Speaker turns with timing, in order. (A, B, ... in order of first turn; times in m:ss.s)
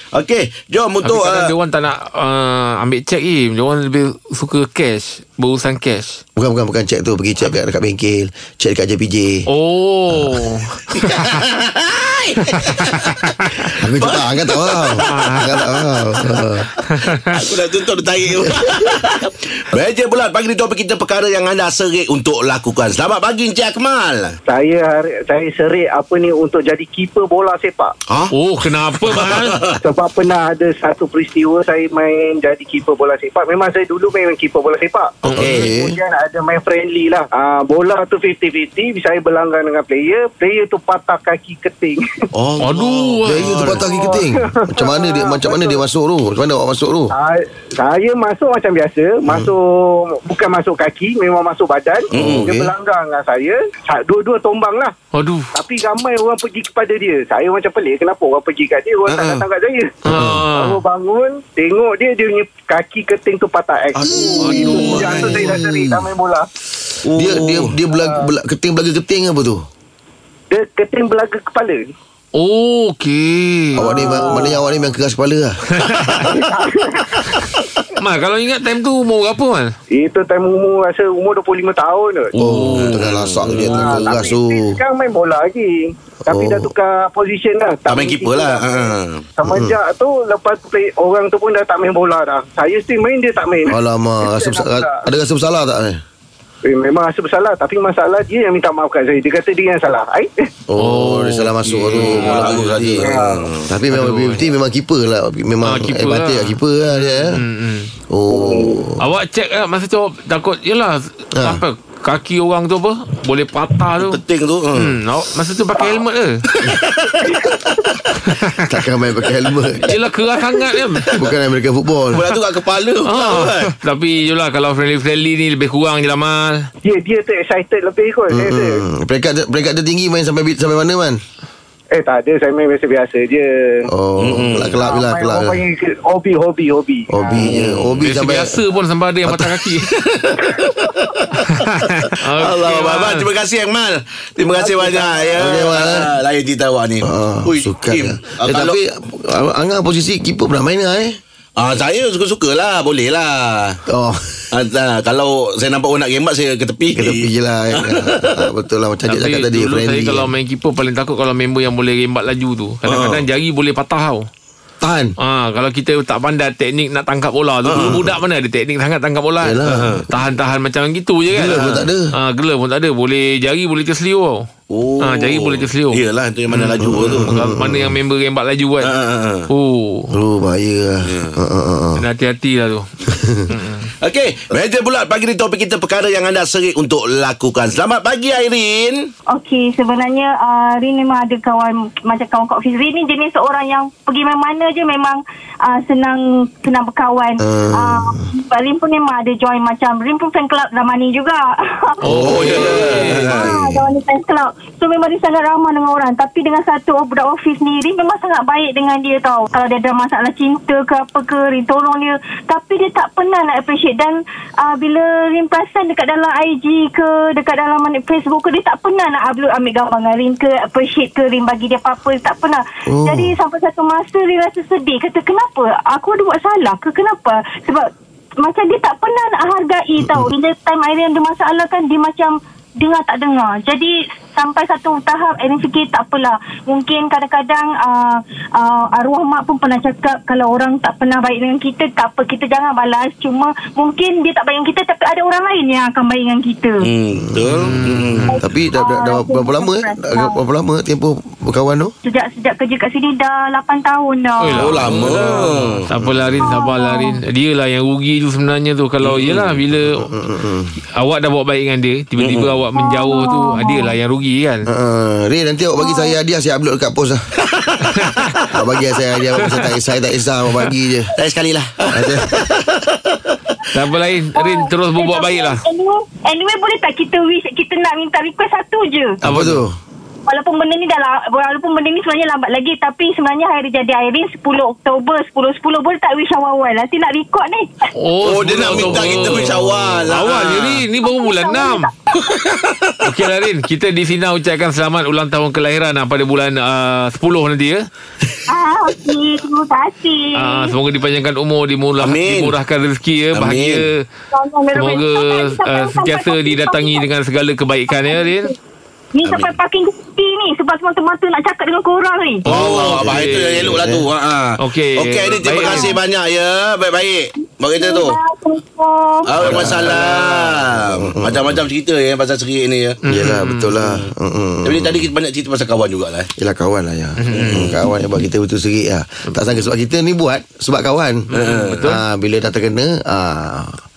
0:00.1-0:01.5 A
0:01.0-0:06.2 B
0:06.4-0:09.5 C
0:09.5-0:11.4 B
0:11.0-0:13.0 A
0:12.5-0:13.8 B
0:13.8-0:16.7 C
0:14.0-0:15.0 A
0:15.0-0:15.5 B
0:16.9-0:17.4 B
0:17.3-0:24.4 A
0:18.5-0:19.0 C
0:24.5-0:27.9 D
0:28.1-0:28.3 A
0:28.3-0:29.6 B
0:29.0-0:29.8 A
0:29.8-0:42.3 D
0:35.2-0:35.7 B
0:35.4-0:36.0 C
0:42.4-0:43.0 A
0:42.6-0:43.9 B
0:43.3-0:47.1 C
0:43.7-0:45.8 D
0:47.1-0:54.9 D
0:49.3-0:49.5 A
0:52.1-0:52.5 A
0:52.2-0:52.7 C
0:55.1-0:55.5 B
0:55.5-1:00.0 D
0:59.1-0:59.5 A
1:00.0-1:00.8 B
1:00.1-1:00.4 C
1:00.5-1:06.5 D
1:04.0-1:06.1 C
1:04.4-1:05.1 B
1:04.9-1:05.5 A
1:07.0-1:07.8 A
1:07.2-1:09.6 C
1:07.9-1:08.3 D
1:10.5-1:11.8 D
1:12.4-1:14.2 B
1:13.8-1:14.9 D
1:13.8-1:15.6 C
1:15.7-1:16.3 B
1:16.3-1:17.3 D
1:18.0-1:19.7 B
1:19.9-1:22.3 D
1:22.3-1:23.8 B
1:22.5-1:23.1 A
1:22.8-1:24.8 C
1:23.5-1:35.1 D
1:26.3-1:26.7 C
1:27.9-1:29.2 A
1:29.5-1:29.8 C
1:33.7-1:36.0 C
1:36.7-1:40.5 D
1:40.7-1:47.4 C
1:40.8-1:42.4 B
1:42.1-1:43.7 A
1:42.1-1:43.5 D
1:43.9-1:44.4 B
1:45.6-1:47.9 B
1:48.1-1:49.0 C
1:48.3-1:48.8 D
1:49.0-1:54.2 B
1:51.4-1:51.6 C
1:54.0-1:55.0 A
1:54.8-1:56.4 B
1:56.5-1:58.0 A
1:58.2-1:58.7 B
1:58.7-1:59.9 C
1:59.9-2:01.2 B
2:01.2-2:02.2 C
2:02.1-2:03.7 A
2:03.1-2:06.7 B
2:06.8-2:08.8 D
2:08.3-2:11.2 C
2:11.9-2:13.9 D
2:13.9-2:15.6 C
2:14.2-2:14.8 A
2:14.8-2:17.5 D
2:17.1-2:18.6 C
2:17.4-2:18.0 A
2:18.0-2:19.9 B
2:19.9-2:21.2 A
2:21.4-2:23.2 B
2:22.4-2:28.8 A
2:24.5-2:25.5 D
2:25.4-2:26.1 C
2:27.0-2:31.2 C
2:31.6-2:33.8 A
2:33.9-2:34.4 C
2:34.5-2:38.4 A
2:36.9-2:40.3 C
2:39.1-2:44.3 B
2:42.9-2:43.2 A
2:44.8-2:45.2 C
2:45.2-2:54.5 B
2:47.7-2:48.1 A
2:49.4-2:50.1 C
2:49.7-2:50.0 A
2:51.3-2:52.1 C
2:54.7-2:57.3 A
2:55.0-2:56.0 B
2:56.5-2:58.9 B
2:56.8-2:58.0 C
2:58.8-2:59.5 A
2:59.5-3:00.1 B
3:00.1-3:02.0 C
3:01.0-3:01.4 A
3:02.0-3:02.9 B
3:03.1-3:03.5 C
3:03.5-3:03.9 B
3:04.0-3:09.1 A
3:09.3-4:06.9 E
3:17.4-3:18.3 C
3:22.0-3:23.4 B
3:22.1-3:22.5 C
3:22.1-3:23.7 A
3:23.4-3:23.8 C
3:42.9-3:43.3 C
4:06.8-4:08.4 A
4:07.5-4:08.4 B
4:08.3-4:10.4 E
4:08.4-4:11.9 C
4:12.0-4:15.1 E
4:14.4-4:20.1 B
4:14.6-4:15.9 A
4:16.4-4:17.2 E
4:19.0-4:19.6 A
4:20.0-4:20.7 C
4:21.0-4:24.7 B
4:22.2-4:22.6 A
4:22.7-4:23.9 E
4:24.7-4:27.2 C
4:25.8-4:26.1 E
4:27.9-4:28.4 B
4:28.5-4:31.1 C
4:31.2-4:33.2 A
4:31.9-4:32.3 C
4:33.7-4:35.6 B
4:34.4-4:39.2 E
4:39.2-4:39.7 C
4:39.2-4:39.6 B
4:40.3-4:47.9 E
4:48.0-4:51.9 B
4:48.2-4:50.8 A
4:48.8-4:49.3 E
4:51.0-4:52.4 E
4:52.2-4:53.0 A
4:53.0-4:57.9 B
4:58.5-5:00.8 E
5:00.4-5:04.0 B
5:02.0-5:02.6 A
5:03.4-5:03.9 A
5:04.3-5:07.1 E
5:04.7-5:08.5 B
5:07.9-5:08.6 E
5:09.1-5:12.5 E
5:09.2-5:09.5 A
5:12.4-5:13.8 B
5:12.5-5:18.2 A
5:13.0-5:14.1 C
5:14.6-5:15.9 B
5:15.6-5:16.0 E
5:17.8-5:19.3 E
5:19.3-5:23.0 A
5:19.4-5:21.6 C
5:23.1-5:23.8 B
5:23.1-5:25.1 C
5:24.6-5:26.3 A
5:26.4-5:31.3 C
5:27.2-5:27.7 B
5:27.3-5:27.8 A
5:31.3-5:32.0 B
5:31.3-5:31.8 A
5:31.8-5:33.8 C